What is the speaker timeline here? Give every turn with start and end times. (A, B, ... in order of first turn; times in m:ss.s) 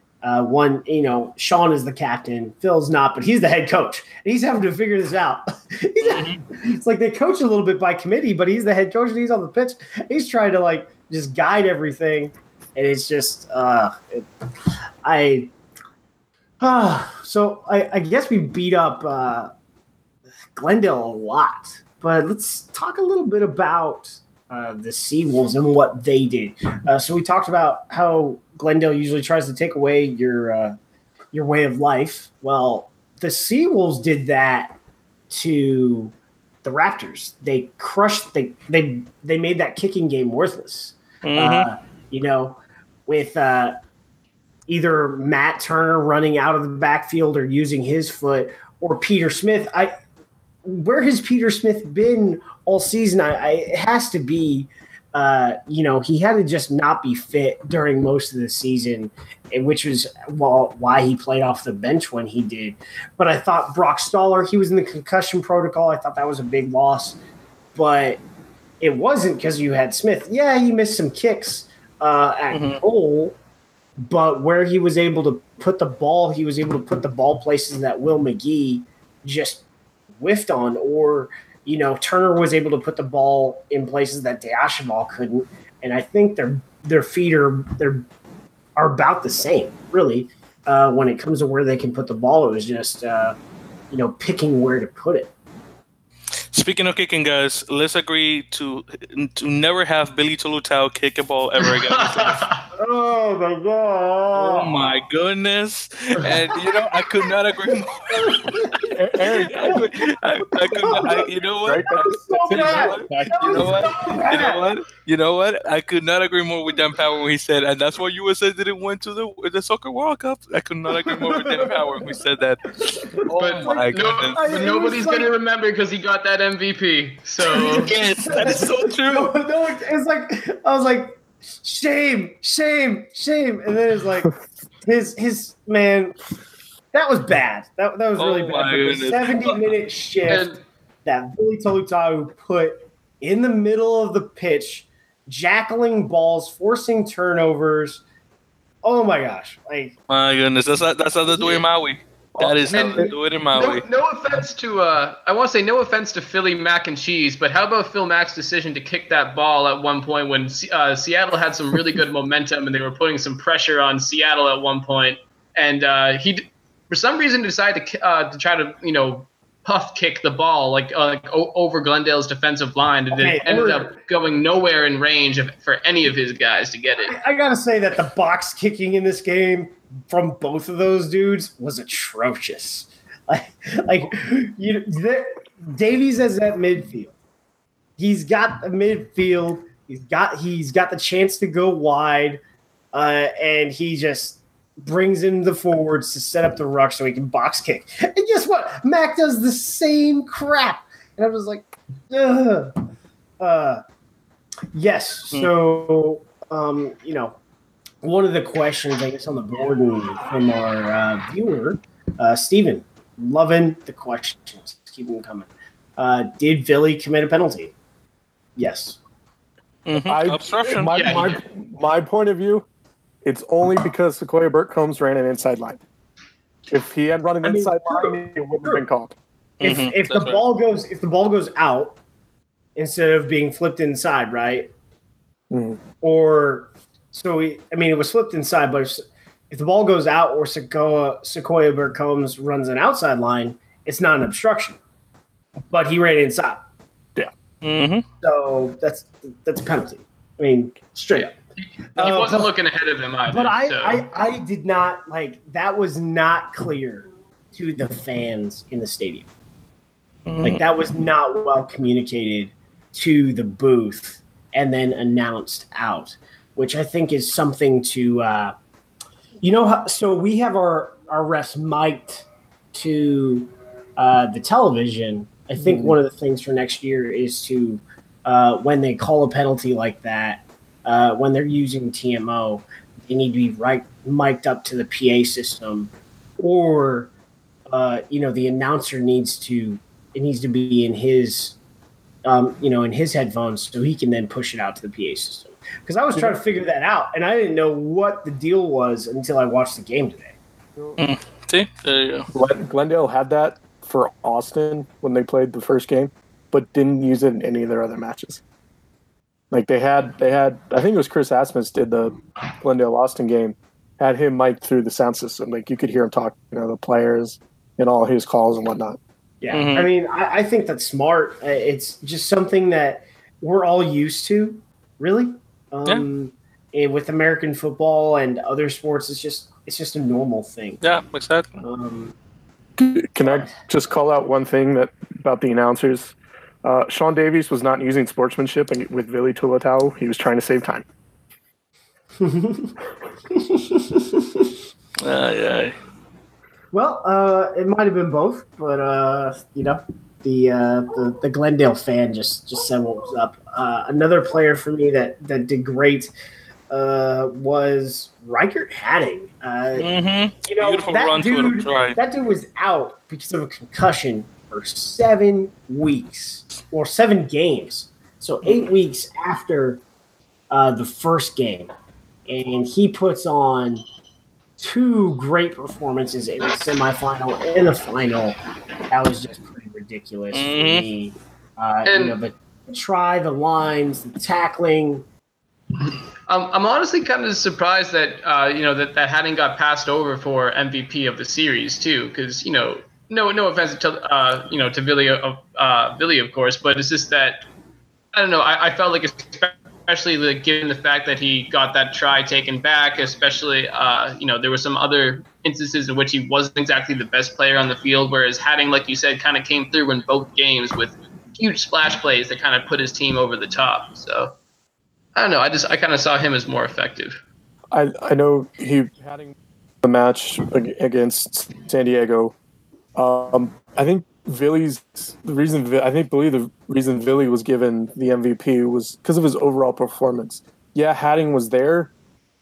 0:00.2-0:14.3 A
0:06.0-0:06.4 B
0:15.0-0:15.5 A
0:16.6-0:19.5 A
0:20.5-0:30.8 A
0:31.3-0:34.8 A
0:35.3-0:43.8 A
0:41.2-0:41.7 B
0:44.7-0:49.9 A
0:50.6-1:07.2 A
1:07.7-1:08.2 A
1:08.8-1:13.4 A
1:12.5-1:12.8 B
1:14.0-1:19.6 A
1:20.2-1:28.0 A
1:28.8-1:33.4 A
1:33.9-1:35.3 A
1:36.5-1:42.5 B
1:41.6-1:42.7 C
1:42.8-1:45.0 A
1:44.3-2:04.7 B
1:46.2-1:48.9 A
1:48.8-1:49.9 D
1:49.6-1:54.7 A
1:51.6-1:53.0 D
2:00.9-2:01.9 A
2:02.8-2:05.3 A
2:03.4-2:07.9 C
2:07.5-2:09.4 B
2:07.5-2:16.2 A
2:16.9-2:28.0 A
2:18.2-2:19.6 B
2:20.3-2:20.6 C
2:28.8-2:29.9 A
2:30.1-2:33.8 B
2:32.4-2:33.1 D
2:32.7-2:57.1 C
2:53.1-2:53.9 A
2:57.0-3:07.1 A
3:08.0-3:12.4 A
3:12.9-3:22.7 A
3:23.4-3:23.8 A
3:24.7-3:27.4 A
3:28.0-3:37.7 A
3:38.6-3:39.0 A
3:39.8-3:41.3 B
3:40.0-3:42.6 D
3:40.9-3:41.3 C
3:43.2-3:45.8 D
3:46.7-3:49.1 D
3:47.4-3:48.8 A
3:49.6-3:50.4 B
3:49.6-3:52.0 A
3:52.8-3:54.7 A
3:55.5-3:55.8 D
3:56.0-4:04.8 A
4:05.7-4:06.6 A
4:07.6-4:08.0 B
4:08.2-4:11.3 A
4:11.9-4:14.0 C
4:12.0-4:12.5 A
4:13.3-4:19.3 A
4:20.2-4:20.6 B
4:20.4-4:28.6 A
4:29.4-4:47.1 A
4:35.6-4:36.0 D
4:47.7-4:51.6 A
4:52.2-5:00.4 A
5:01.0-5:02.3 B
5:02.3-5:08.4 D
5:09.5-5:19.0 D
5:19.4-5:30.8 A
5:19.5-5:19.9 B
5:30.8-5:31.5 B
5:31.6-5:32.2 A
5:32.8-5:40.8 D
5:42.2-5:42.8 A
5:43.3-5:44.5 A
5:45.0-5:45.8 B
5:46.7-5:56.1 A
5:56.7-5:59.9 A
5:59.8-6:02.0 B
6:00.4-6:09.8 A
6:10.5-6:11.7 A
6:12.3-6:13.8 A
6:14.6-6:25.0 A
6:20.3-6:20.9 B
6:21.8-6:22.2 C
6:25.8-6:37.4 C
6:38.1-6:54.3 C
6:55.1-6:57.2 C
6:57.7-7:02.3 D
7:03.0-7:11.9 D